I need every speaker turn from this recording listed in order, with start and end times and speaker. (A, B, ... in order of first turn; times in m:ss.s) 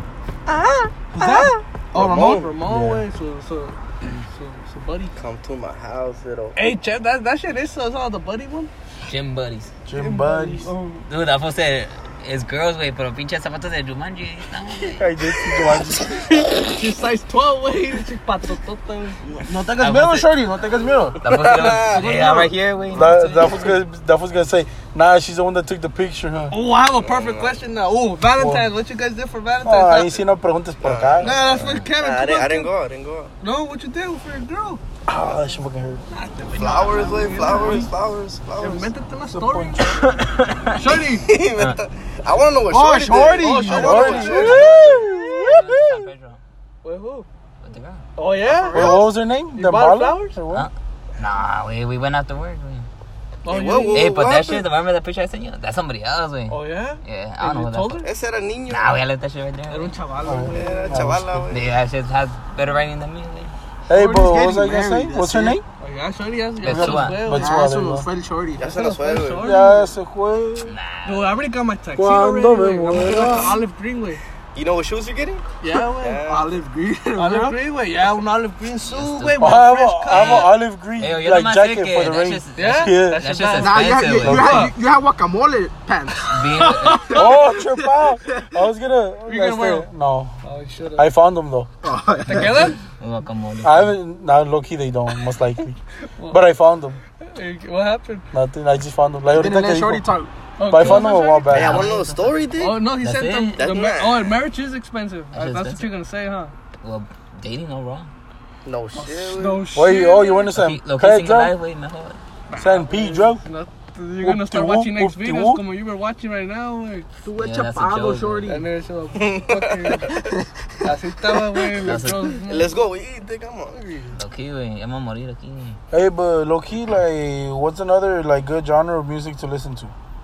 0:00.5-0:05.1 A
0:01.1-0:02.4 B
0:01.9-0:02.5 C
0:02.6-0:03.0 D
0:05.2-0:06.6 C
0:06.6-0:08.7 A
0:09.1-0:09.7 E
0:09.9-0:10.7 D
0:10.0-0:11.1 A
0:11.1-0:15.0 E
0:15.0-0:16.2 D
0:16.7-0:19.2 A
0:19.2-0:22.6 B
0:19.8-0:20.3 E
0:21.2-0:23.7 E
0:21.3-0:22.1 C
0:22.9-0:26.6 D
0:26.5-0:30.2 A
0:27.0-0:27.6 C
0:28.4-0:28.7 D
0:29.6-0:31.4 D
0:30.8-0:33.3 C
0:31.2-0:32.7 A
0:31.5-0:31.9 E
0:33.4-0:34.8 A
0:35.1-0:36.0 D
0:36.1-0:37.9 A
0:36.5-0:38.9 C
0:38.6-0:40.2 A
0:39.3-0:40.2 D
0:40.1-0:40.8 E
0:40.7-0:41.3 A
0:41.2-0:45.1 C
0:42.7-0:44.7 B
0:43.3-0:45.2 A
0:43.7-0:46.0 D
0:44.5-0:46.4 E
0:46.8-0:47.3 A
0:47.6-0:48.0 E
0:48.2-0:48.9 A
0:48.5-0:49.0 C
0:48.7-0:50.7 D
0:49.6-0:50.4 A
0:50.5-0:52.9 E
0:53.4-0:54.2 A
0:53.5-0:54.6 C
0:53.9-0:58.1 E
0:56.5-0:58.1 A
0:58.0-0:59.0 C
0:58.7-0:59.9 E
0:59.7-1:01.1 A
1:00.3-1:01.5 D
1:00.5-1:01.7 C
1:01.5-1:03.5 E
1:03.9-1:05.6 D
1:03.9-1:05.6 B
1:05.8-1:07.6 A
1:06.6-1:07.3 E
1:06.7-1:08.1 D
1:07.3-1:08.8 B
1:08.6-1:09.6 C
1:08.6-1:09.9 A
1:09.4-1:10.7 D
1:10.7-1:11.3 E
1:11.0-1:14.2 A
1:12.0-1:13.6 D
1:14.6-1:16.5 C
1:15.6-1:16.2 A
1:16.3-1:17.6 B
1:17.2-1:20.5 A
1:18.9-1:24.7 E
1:19.4-1:23.2 D
1:22.6-1:24.7 A
1:23.6-1:28.5 B
1:24.2-1:24.7 D
1:26.3-1:27.2 E
1:26.5-1:27.5 A
1:27.1-1:30.4 D
1:29.3-1:29.9 A
1:30.4-1:31.1 A
1:31.0-1:31.7 D
1:31.8-1:32.8 B
1:32.3-1:32.8 A
1:33.0-1:33.9 E
1:33.6-1:35.8 D
1:36.2-1:36.4 A
1:36.3-1:37.0 D
1:37.3-1:38.3 A
1:38.3-1:40.1 D
1:39.3-1:40.3 B
1:40.6-1:41.9 A
1:40.6-1:41.9 D
1:41.5-1:42.9 C
1:41.5-1:43.7 E
1:42.6-1:46.5 A
1:43.6-1:44.4 C
1:45.3-1:45.9 E
1:46.8-1:48.1 E
1:48.6-1:49.7 C
1:49.0-1:50.5 A
1:49.7-1:51.5 D
1:50.5-1:52.2 E
1:52.5-1:57.1 A
1:52.6-1:53.4 D
1:54.2-1:55.6 D
1:57.2-1:58.7 B
1:57.4-1:58.5 E
1:58.5-2:00.3 A
1:59.2-2:00.2 C
2:00.8-2:02.8 A
2:01.8-2:02.3 E
2:02.4-2:04.0 C
2:03.9-2:04.1 A
2:04.1-2:05.8 E
2:05.9-2:09.9 D